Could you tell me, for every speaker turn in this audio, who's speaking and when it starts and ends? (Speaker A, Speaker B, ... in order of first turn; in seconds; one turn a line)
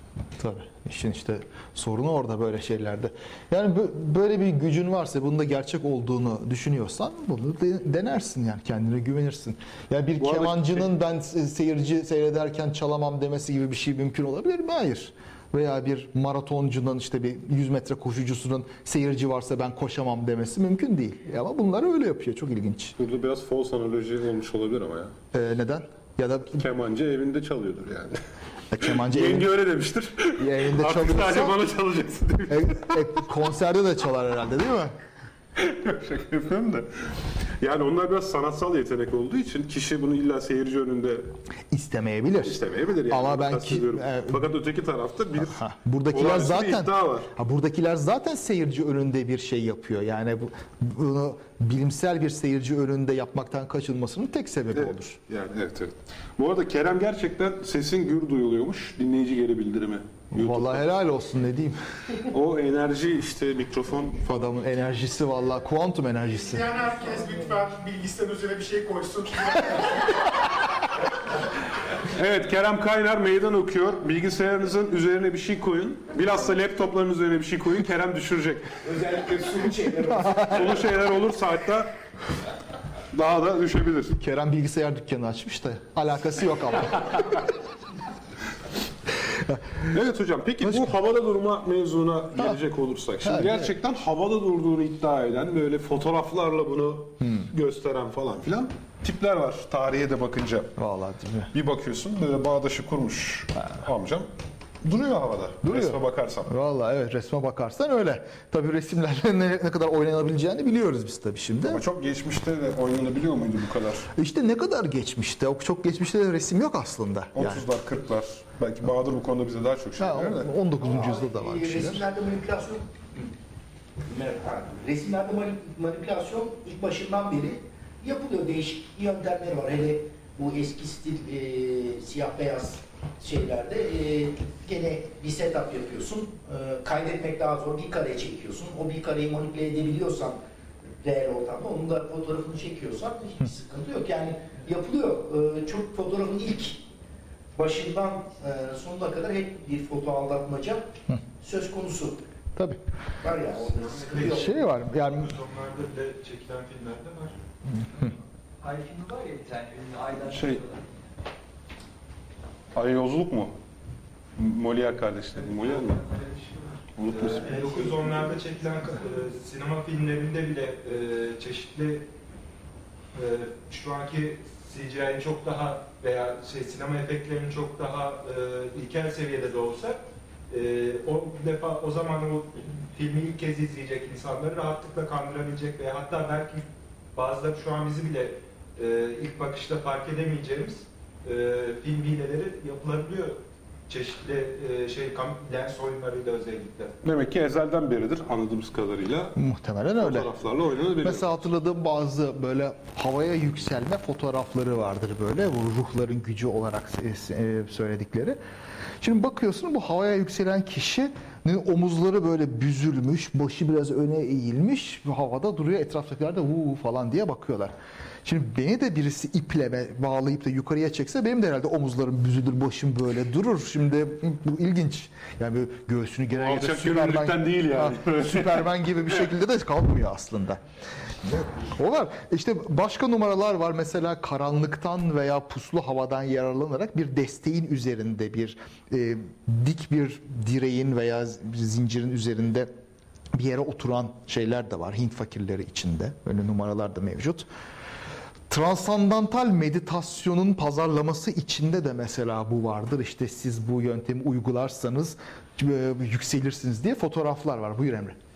Speaker A: 0.4-22.9
Speaker B: 10.2-10.9
Speaker B: 23.0-25.1
Speaker A: 25.3-26.7
Speaker B: 26.6-28.2
Speaker A: 28.7-29.5
Speaker B: 28.8-33.0
Speaker A: 30.4-31.6
Speaker A: 32.5-34.9
Speaker B: 35.6-36.9
Speaker B: 37.6-41.3
Speaker A: 41.7-44.5
Speaker B: 42.4-45.6
Speaker A: 45.4-55.2
Speaker B: 46.1-47.3
Speaker B: 54.7-60.9
Speaker A: 60.3-61.8
Speaker B: 62.3-64.2
Speaker A: 64.2-66.7
Speaker C: 66.4-70.1
Speaker B: 72.0-78.7
Speaker D: 78.8-80.9
Speaker A: 80.2-80.5
Speaker B: 80.5-81.9
Speaker B: 83.1-84.2
Speaker A: 84.1-87.4
Speaker A: 89.3-89.6
Speaker B: 89.9-100.8
Speaker A: 90.7-90.9
Speaker A: 93.2-93.7
Speaker A: 97.2-97.5
Speaker A: 100.8-101.5
Speaker B: 101.5-104.3
Speaker B: 104.8-106.5
Speaker A: 105.6-111.8
Speaker B: 111.7-114.1
Speaker A: 114.2-117.6
Speaker B: 117.3-120.5
Speaker A: 120.0-122.1
Speaker D: 120.8-123.3
Speaker D: 124.0-140.4
Speaker D: 141.0-146.8
Speaker D: 147.6-150.9
Speaker D: 151.4-152.2
Speaker D: 153.2-154.6
Speaker E: 154.0-154.5
Speaker A: 154.2-155.3
Speaker E: 155.0-157.3
Speaker A: 157.8-158.1
Speaker F: 158.6-160.9
Speaker B: 160.3-160.6
Speaker B: 162.7-163.5
Speaker B: 164.4-166.0
Speaker E: 165.5-172.1
Speaker B: 167.0-168.3
Speaker E: 173.1-196.9
Speaker B: 197.0-199.3
Speaker A: 199.4-200.3
Speaker B: 200.0-201.5
Speaker A: 201.0-208.4
Speaker A: 209.0-217.7
Speaker A: 218.2-230.6
Speaker B: 226.3-228.7
Speaker A: 231.2-242.7
Speaker A: 243.3-247.5
Speaker A: 248.5-258.2